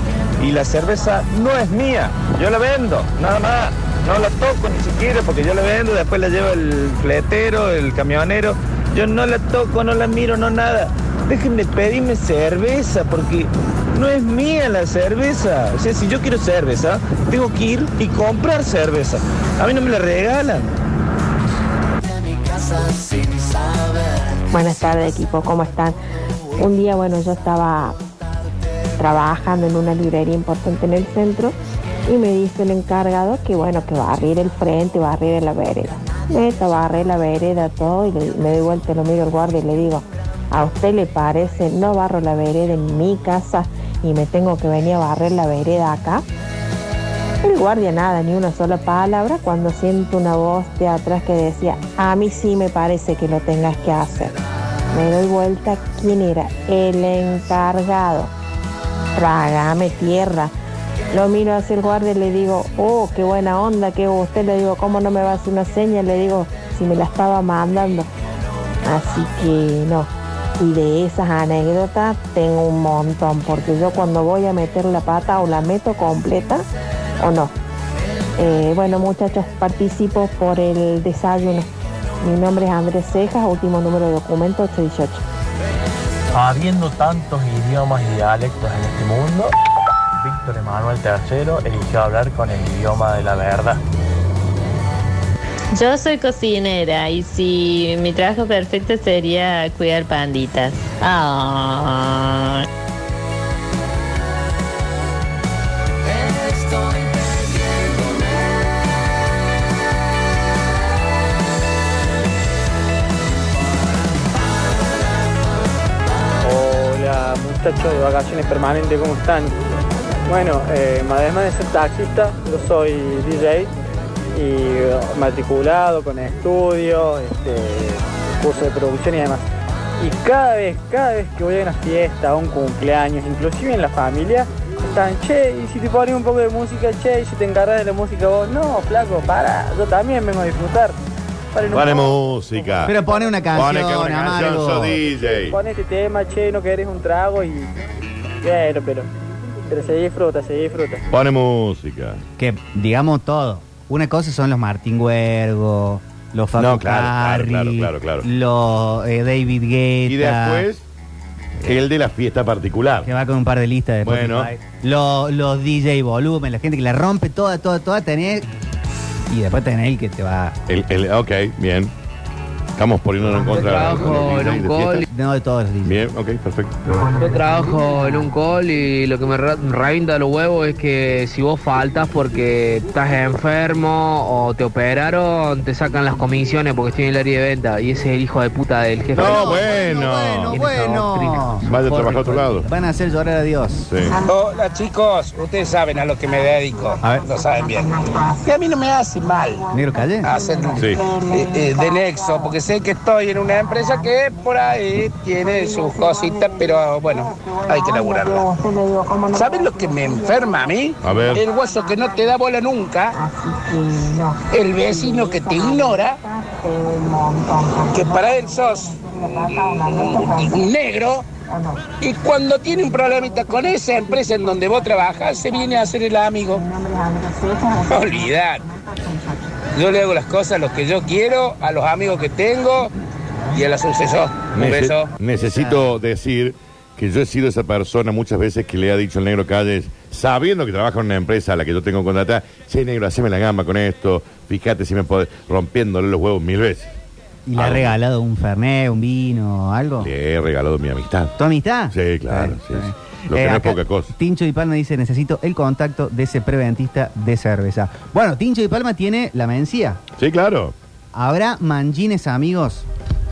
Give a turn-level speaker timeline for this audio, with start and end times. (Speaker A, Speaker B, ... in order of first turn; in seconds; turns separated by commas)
Speaker A: 0.4-20.7, Speaker B: 24.5-25.9, Speaker B: 26.6-27.9, Speaker B: 29.0-31.6, Speaker B: 32.1-46.2, Speaker B: 47.4-54.3, Speaker B: 54.9-58.3, Speaker B: 59.1-60.5, Speaker B: 61.1-68.1, Speaker B: 68.8-76.7, Speaker B: 77.2-77.5, Speaker B: 78.4-81.7, Speaker B: 82.2-85.2, Speaker C: 86.3-89.5, Speaker C: 90.2-93.8, Speaker D: 95.7-102.7, Speaker E: 116.4-119.5, Speaker E: 120.3-123.7, Speaker E: 124.3-129.4, Speaker E: 130.0-141.0, Speaker E: 141.5-143.3, Speaker F: 141.7-143.0, Speaker G: 142.8-145.0, Speaker F: 143.5-145.6, Speaker E: 145.5-147.7, Speaker E: 148.4-149.1, Speaker E: 149.7-151.0, Speaker F: 151.1-152.2, Speaker G: 152.4-160.7, Speaker F: 156.6-158.2, Speaker F: 160.1-160.8, Speaker F: 161.6-163.1, Speaker G: 163.0-168.5, Speaker F: 164.0-164.5, Speaker G: 169.3-170.6, Speaker F: 170.7-171.9, Speaker F: 172.8-175.1, Speaker H: 173.4-175.1, Speaker G: 175.1-175.9, Speaker F: 175.8-176.7, Speaker H: 177.1-189.6, Speaker G: 189.1-193.9, Speaker F: 189.1-190.6, Speaker H: 190.5-191.6, Speaker F: 191.6-192.7, Speaker F: 193.9-194.2, Speaker I: 194.1-199.7, Speaker G: 197.0-197.3, Speaker G: 199.7-200.3, Speaker I: 200.2-208.5, Speaker B: 208.5-209.3, Speaker I: 209.3-213.2, Speaker F: 211.0-211.4, Speaker B: 213.2-214.4, Speaker I: 214.5-216.2, Speaker B: 216.3-217.9, Speaker I: 217.9-221.2, Speaker I: 222.0-226.7, Speaker B: 226.7-227.8, Speaker I: 227.8-228.6, Speaker I: 229.7-232.9, Speaker I: 233.5-235.1, Speaker F: 234.5-247.0, Speaker G: 235.4-235.9, Speaker G: 247.4-250.1, Speaker F: 247.6-247.9, Speaker F: 250.0-251.3, Speaker G: 251.4-260.0, Speaker F: 251.9-254.1, Speaker F: 260.2-260.7, Speaker G: 261.1-262.9